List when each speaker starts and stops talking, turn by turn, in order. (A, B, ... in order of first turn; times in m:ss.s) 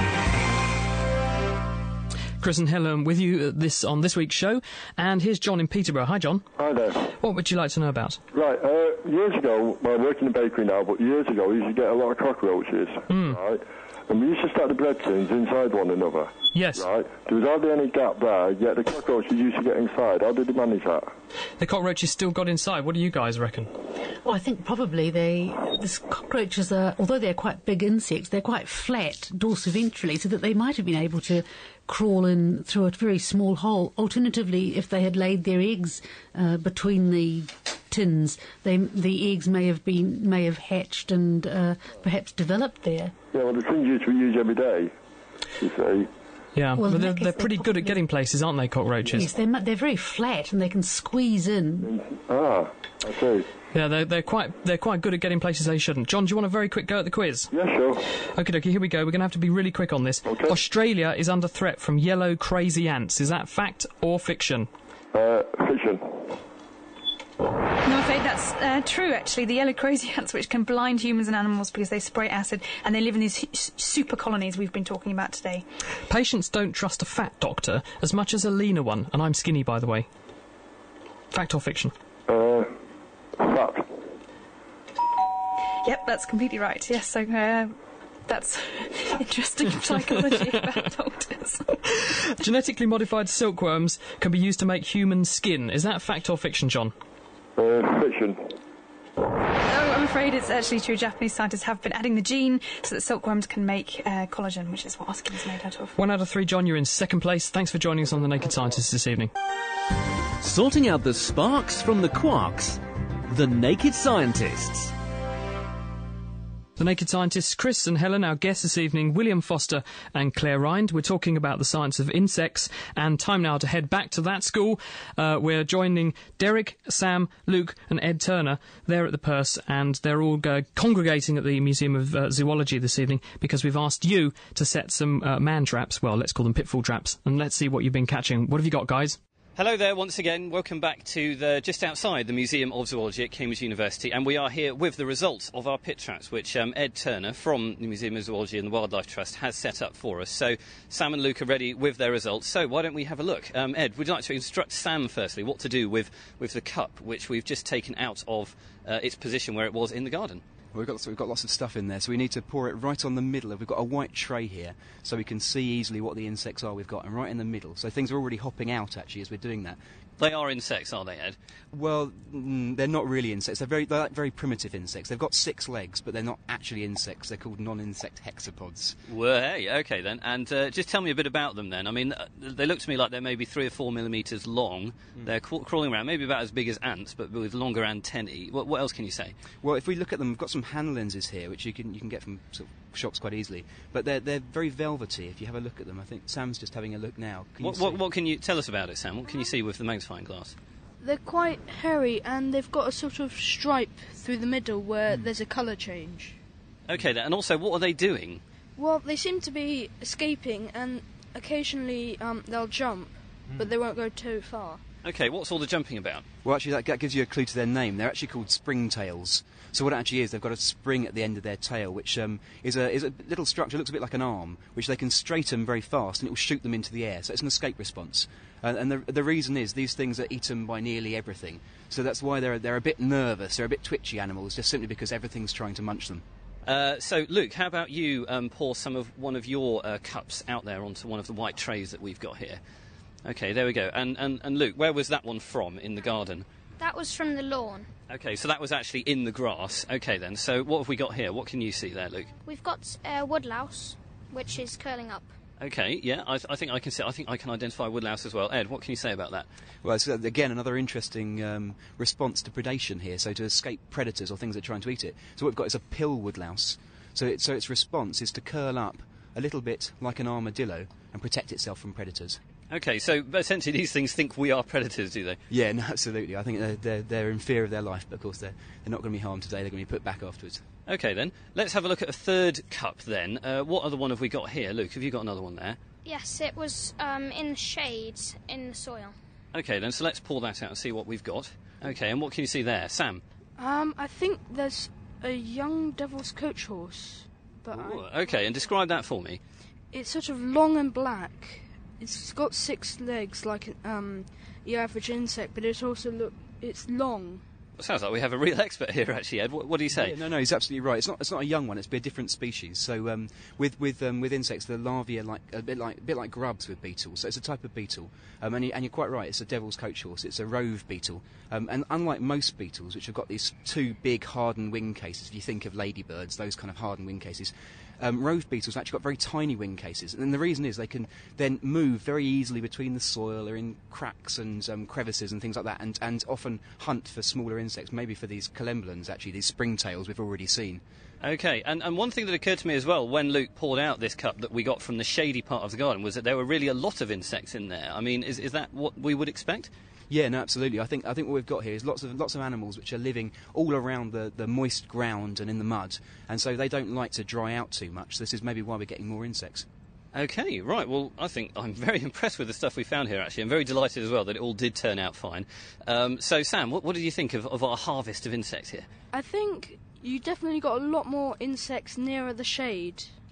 0:02.4-0:06.5 A
0:06.6-0:07.2 B
0:07.2-0:08.2 A
0:08.3-0:21.1 B
0:13.1-0:13.4 A
0:16.5-0:16.9 A
0:21.6-0:23.7 A
0:24.2-0:43.2 C
0:43.3-0:44.9 B
0:45.6-0:46.1 B
0:46.6-0:49.3 A
0:46.8-0:48.0 C
0:49.1-0:51.9 C
0:51.8-0:53.5 B
0:53.7-0:57.5 A
0:57.5-0:58.0 B
0:58.3-1:04.7 A
1:00.2-1:00.6 B
1:05.1-1:06.4 B
1:07.8-1:15.6 D
1:16.1-1:20.1 A
1:21.3-1:21.9 A
1:22.3-1:22.8 B
1:23.4-1:24.2 B
1:25.8-1:27.8 D
1:28.3-1:31.6 D
1:32.0-1:36.9 A
1:37.6-1:38.6 B
1:39.7-1:45.9 D
1:46.0-1:49.3 A
1:50.4-1:54.9 E
1:56.8-2:19.2 A
2:19.6-2:40.4 F
2:40.7-2:49.8 G
2:50.2-2:51.4 F
2:51.7-2:59.0 G
2:59.1-3:09.4 F
3:09.6-3:18.0 G
3:17.6-3:20.6 F
3:21.0-3:26.4 H
3:26.9-3:28.4 F
3:28.8-3:34.8 H
3:35.0-3:36.2 F
3:36.4-3:56.2 G
3:56.6-4:02.6 F
4:03.2-4:06.5 F
4:06.8-4:07.9 I
4:08.1-4:12.3 F
4:12.4-4:15.4 I
4:15.6-4:19.5 F
4:19.8-4:32.4 G
4:32.7-4:35.4 F
4:35.5-4:40.6 G
4:40.9-4:45.8 F
4:46.0-4:49.2 I
4:49.5-4:53.2 F
4:53.6-4:58.4 H
4:57.7-4:59.4 F
4:59.9-5:07.4 H
5:07.8-5:10.2 F
5:09.9-5:40.8 G
5:41.2-5:49.7 F
5:50.1-5:59.6 G
6:00.1-6:08.9 F
6:09.1-6:13.1 H